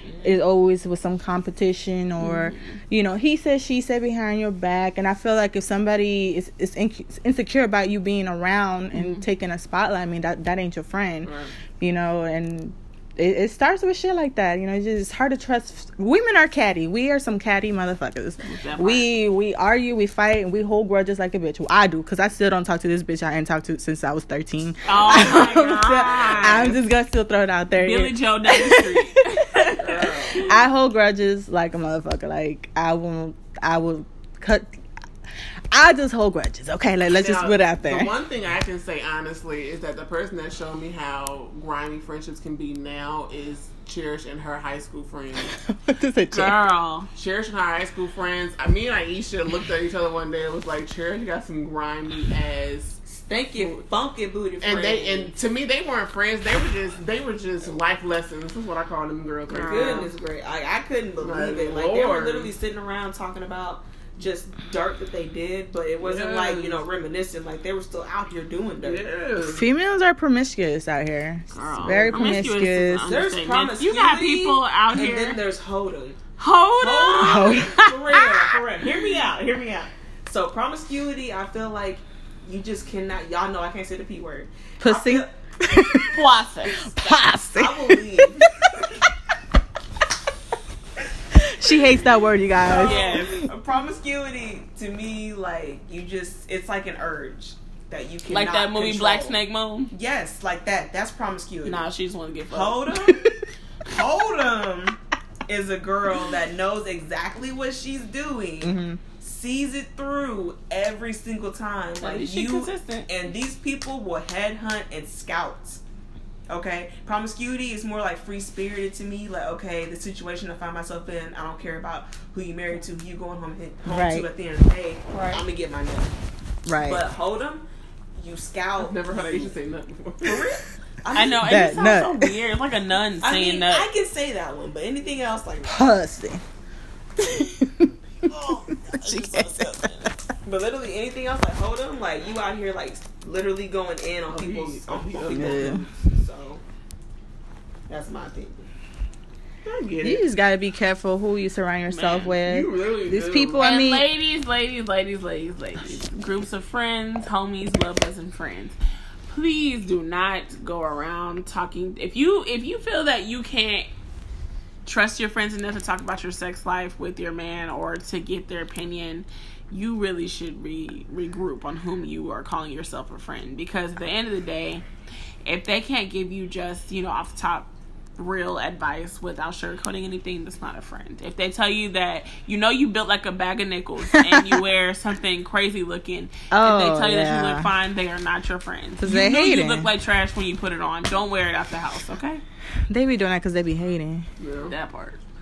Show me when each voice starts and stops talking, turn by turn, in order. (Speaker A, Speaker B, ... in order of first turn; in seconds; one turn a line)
Speaker A: 0.2-29.1
Speaker B: 2.2-2.8
Speaker B: 8.9-9.2
Speaker C: 11.2-11.5
Speaker B: 18.4-19.1
Speaker B: 24.9-26.8
Speaker B: 27.7-30.5
Speaker C: 29.8-30.4
Speaker D: 30.1-30.4
Speaker A: 30.4-34.7
Speaker A: 35.7-38.1
Speaker C: 37.1-45.5
Speaker A: 45.6-46.6
Speaker B: 46.3-47.1
Speaker C: 47.1-53.8
Speaker D: 53.1-55.3
Speaker C: 54.6-60.1
Speaker B: 59.5-60.1
Speaker D: 59.5-69.1
Speaker C: 61.2-62.5
Speaker C: 66.0-66.8
Speaker C: 68.8-69.6
Speaker A: 69.4-73.2
Speaker B: 71.5-75.4
Speaker D: 73.1-76.2
Speaker B: 76.4-78.2
Speaker D: 76.8-85.3
Speaker A: 77.2-77.8
Speaker A: 84.8-86.2
Speaker B: 86.1-86.9
Speaker A: 86.8-88.8
Speaker D: 87.5-88.4
Speaker A: 91.3-93.4
Speaker D: 92.6-99.4
Speaker B: 92.7-93.3
Speaker B: 98.3-99.9
Speaker D: 99.9-101.9
Speaker B: 101.6-103.3
Speaker D: 102.5-103.3
Speaker D: 103.9-115.8
Speaker A: 108.6-109.0
Speaker B: 112.0-113.1
Speaker D: 116.5-126.1
Speaker A: 123.9-124.3
Speaker C: 125.1-125.4
Speaker A: 126.7-127.0
Speaker D: 126.8-127.6
Speaker D: 128.2-129.6
Speaker C: 128.8-130.6
Speaker D: 130.2-131.5
Speaker B: 131.1-133.9
Speaker A: 131.4-132.3
Speaker D: 133.2-135.9
Speaker A: 135.6-136.4
Speaker A: 137.2-137.9
Speaker D: 138.2-146.6
Speaker A: 138.9-140.1
Speaker C: 144.3-145.7
Speaker A: 145.3-145.8
Speaker D: 147.9-148.7
Speaker C: 149.6-150.2
Speaker A: 150.0-154.1
Speaker B: 151.9-152.4
Speaker C: 152.4-153.6
Speaker B: 153.6-158.8
Speaker B: 159.3-163.9
Speaker B: 164.8-174.8
Speaker B: 175.4-192.4
Speaker A: 184.1-184.6
Speaker A: 186.5-187.7
Speaker A: 189.0-189.9
Speaker A: 192.9-194.2
Speaker C: 194.4-194.7
Speaker B: 194.6-195.2